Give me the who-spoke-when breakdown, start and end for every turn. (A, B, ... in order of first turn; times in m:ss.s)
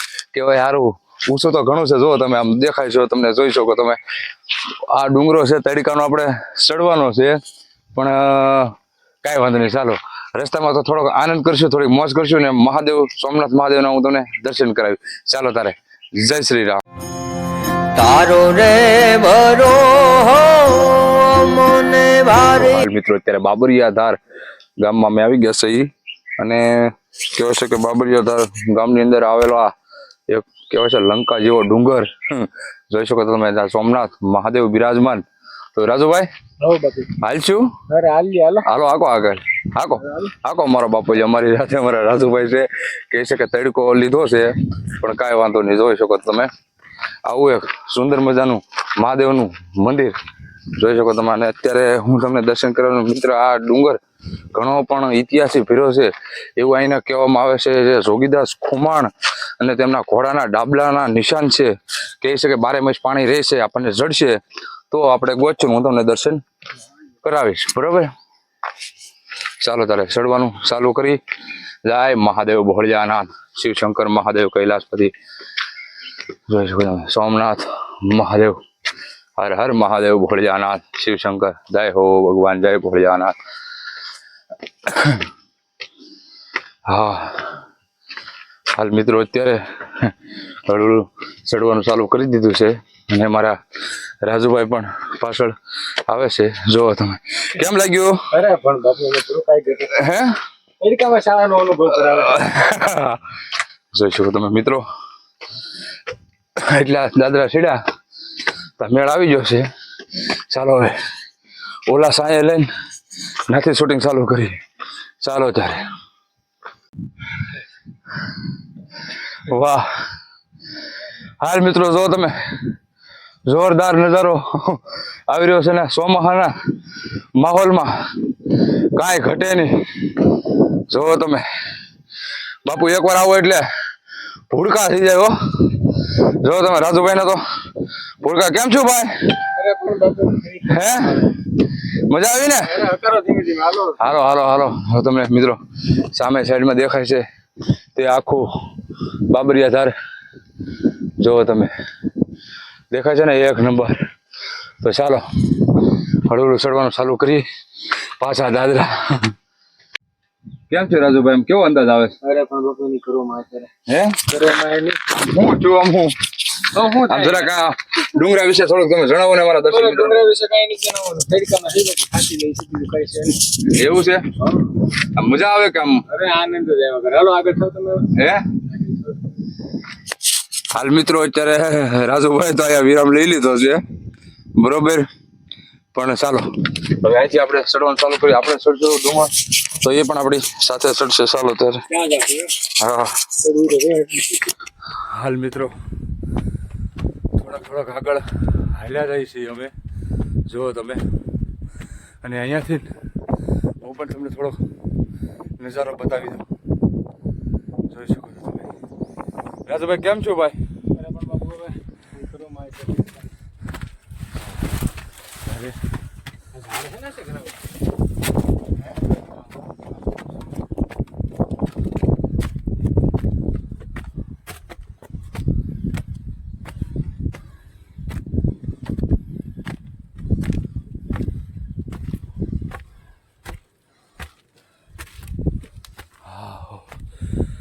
0:00.3-0:04.0 A
0:04.7-0:07.4 A
0:07.9-0:16.8 A
0:17.9-0:22.8 B
0:22.5-0:24.2 A
0:24.8-0:29.7 A
0:30.3-0:36.3 A
0:36.6-0:37.2 C
0:37.2-0:37.7 A
0:37.9-0:38.6 C
0:38.6-0:46.5 A
0:47.2-0:50.1 A
0:50.7-0:54.0 A
0:54.5-1:06.4 A
1:07.2-1:08.1 A
1:09.6-1:11.2 A
1:11.8-1:15.1 A
1:16.5-1:18.6 A
1:19.4-1:23.4 A
1:24.8-1:25.2 A
1:26.8-1:27.6 A
1:28.7-1:33.6 A
1:34.2-1:38.3 A
1:38.3-1:40.0 C
1:39.9-1:40.4 A
1:40.8-1:42.5 C
1:42.2-1:43.2 A
1:43.9-1:44.8 A
1:46.6-1:47.8 A
1:48.8-1:51.0 A
1:51.8-1:52.7 A
1:53.5-1:54.6 A
1:55.2-1:55.8 A
1:59.4-1:59.9 A
2:01.4-2:02.7 A
2:03.4-2:06.5 A
2:07.4-2:11.4 A
2:12.6-2:13.6 A
2:14.5-2:17.4 A
2:18.2-2:19.5 A
2:19.6-2:21.3 C
2:20.7-2:22.8 A
2:22.6-2:24.0 C
2:23.9-2:27.2 A
2:27.9-2:28.5 A
2:29.3-2:29.9 A
2:31.2-2:31.7 A
2:32.9-2:34.0 A
2:34.8-2:37.4 A
2:38.2-2:39.3 A
2:40.7-2:42.2 A
2:42.2-2:43.7 C
2:43.8-2:44.3 A
2:44.3-2:45.0 C
2:45.0-2:50.2 A
2:46.7-2:47.5 C
2:49.7-2:53.5 C
2:53.5-2:54.4 A
2:54.4-2:54.7 C
2:55.0-2:56.0 A
2:56.1-2:58.1 C
2:58.1-2:58.5 A
2:58.8-2:59.1 C
3:00.7-3:03.8 A
3:04.6-3:05.1 A
3:05.9-3:11.8 A
3:11.9-3:12.6 C
3:12.6-3:13.1 A
3:13.4-3:14.5 C
3:15.0-3:15.7 A
3:17.4-3:19.7 A
3:20.5-3:21.0 A
3:22.2-3:23.0 A
3:23.8-3:24.7 A
3:25.6-3:26.5 A
3:27.9-3:28.7 A
3:29.6-3:30.6 A
3:31.0-3:33.2 C
3:35.4-3:35.8 A
3:36.6-3:37.4 C
3:56.2-3:56.9 A